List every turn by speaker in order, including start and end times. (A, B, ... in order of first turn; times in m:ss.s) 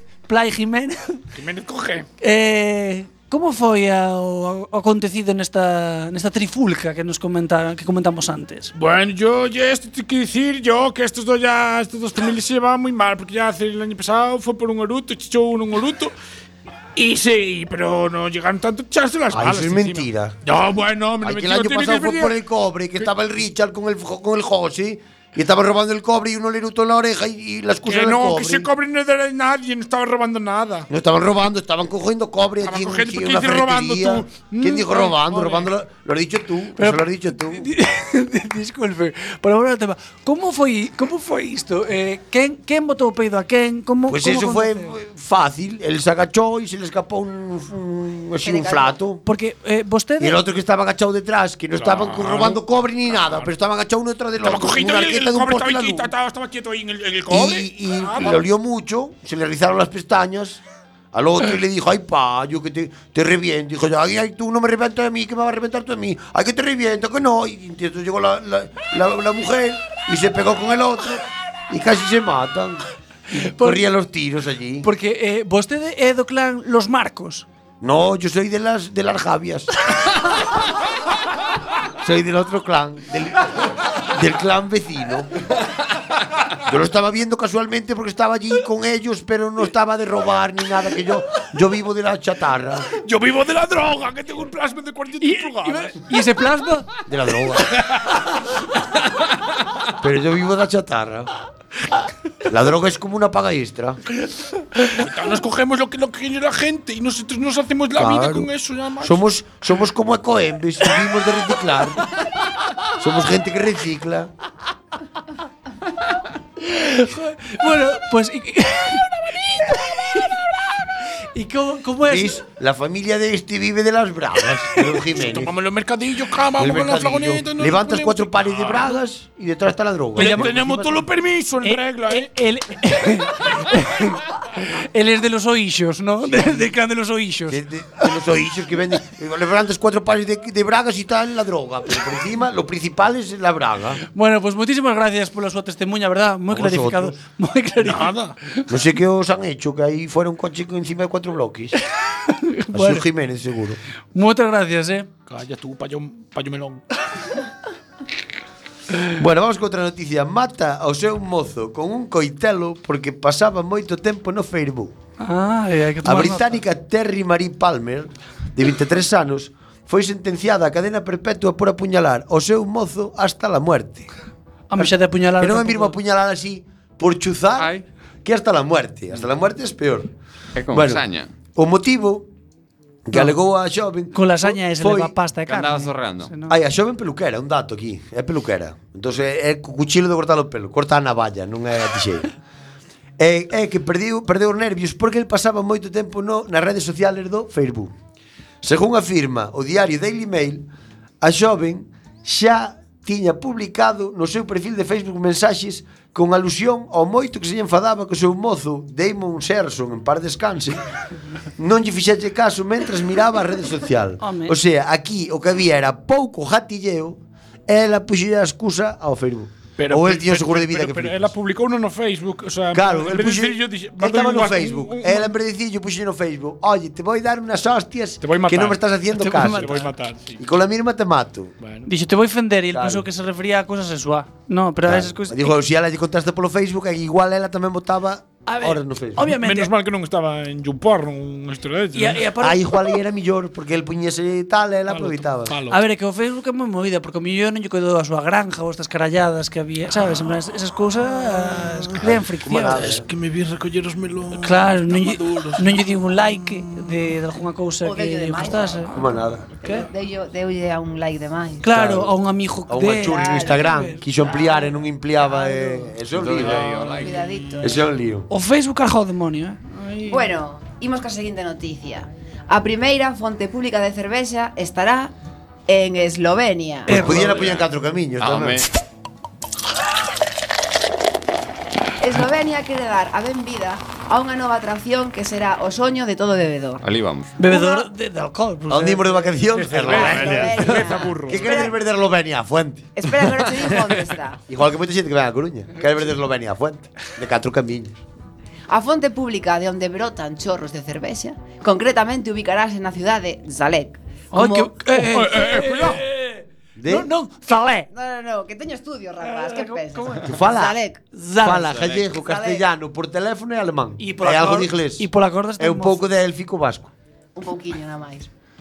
0:00.3-0:01.2 A
0:01.3-0:02.1 B
0:02.2-0:08.7 A
0:08.8-0:16.1 B
0:17.0-0:22.4 B
0:19.3-0:20.4 C
0:21.2-0:28.7 C
0:27.9-0:30.9 B
0:30.9-0:37.7 C
0:32.6-0:35.7 B
0:36.8-0:44.9 A
0:44.1-0:49.2 C
0:48.4-0:49.0 D
0:49.2-0:50.4 A
0:50.2-0:56.1 C
0:51.8-0:53.5 B
0:54.4-0:58.4 B
0:57.3-1:00.6 C
1:01.1-1:12.8 C
1:13.3-1:13.9 A
1:13.4-1:14.9 C
1:14.8-1:17.5 A
1:17.8-1:19.7 C
1:22.0-1:25.5 C
1:26.6-1:32.9 C
1:32.9-1:36.0 B
1:35.2-1:36.9 A
1:37.1-1:37.7 C
1:37.8-1:38.1 B
1:40.0-1:41.3 C
1:42.5-1:44.0 C
1:44.8-1:49.2 B
1:48.0-1:48.5 C
1:49.0-1:52.1 C
1:53.0-1:54.3 C
1:56.6-2:00.7 A
2:01.3-2:02.4 A
2:02.1-2:05.5 C
2:05.1-2:09.0 B
2:06.6-2:11.1 C
2:10.2-2:12.3 B
2:10.2-2:10.4 A
2:11.6-2:17.6 A
2:17.5-2:24.0 C
2:24.1-2:28.1 A
2:26.5-2:27.2 C
2:27.8-2:28.4 B
2:28.7-2:31.8 C
2:32.2-2:33.1 A
2:32.7-2:33.8 C
2:34.1-2:35.1 A
2:35.3-2:36.8 B
2:39.2-2:45.0 C
2:45.2-2:46.6 A
2:46.0-2:54.1 C
2:54.7-2:56.0 A
2:54.8-2:57.7 C
2:57.6-2:57.8 E
2:58.2-3:00.1 C
3:00.6-3:01.3 E
3:00.7-3:01.0 C
3:01.6-3:02.3 C
3:03.1-3:05.1 C
3:04.1-3:06.6 A
3:05.5-3:06.3 E
3:06.5-3:12.3 C
3:13.2-3:17.9 C
3:18.6-3:20.7 C
3:21.2-3:30.8 C
3:31.6-3:41.3 C
3:34.2-3:34.6 A
3:39.8-3:45.3 B
3:42.7-3:49.8 C
3:48.2-3:50.4 B
3:49.2-3:49.9 A
3:50.4-3:51.5 C
3:51.6-3:51.9 B
3:51.8-3:55.6 A
3:52.7-3:53.0 C
3:54.8-3:59.3 C
3:58.5-3:59.7 A
3:59.2-4:02.4 B
4:01.9-4:03.0 A
4:02.4-4:05.6 C
4:04.9-4:05.8 B
4:05.7-4:12.9 A
4:12.0-4:13.1 C
4:12.7-4:15.8 B
4:14.4-4:18.9 A
4:17.8-4:21.7 D
4:18.9-4:19.4 C
4:21.6-4:24.0 A
4:21.7-4:22.1 C
4:22.7-4:26.9 C
4:23.1-4:25.9 D
4:26.1-4:27.5 E
4:26.5-4:27.8 D
4:27.6-4:28.3 C
4:28.3-4:30.3 A
4:30.1-4:35.1 D
4:35.7-4:37.1 D
4:36.9-4:38.6 C
4:36.9-4:37.6 A
4:38.2-4:38.7 E
4:42.0-4:46.9 D
4:46.8-4:47.3 E
4:47.4-4:49.3 A
4:47.4-4:47.9 D
4:48.7-4:50.6 C
4:49.6-4:51.6 B
4:49.8-4:51.7 D
4:50.0-4:50.9 E
4:51.2-4:52.9 C
4:53.0-4:54.4 D
4:53.3-4:54.0 E
4:54.5-4:58.0 C
4:58.7-5:04.9 D
5:04.3-5:07.9 A
5:05.0-5:06.0 B
5:06.8-5:07.1 C
5:07.9-5:11.0 D
5:09.2-5:10.4 A
5:10.2-5:10.8 C
5:11.1-5:11.8 A
5:11.4-5:16.9 C
5:11.7-5:12.1 E
5:12.1-5:12.6 D
5:14.0-5:16.1 A
5:17.4-5:18.3 D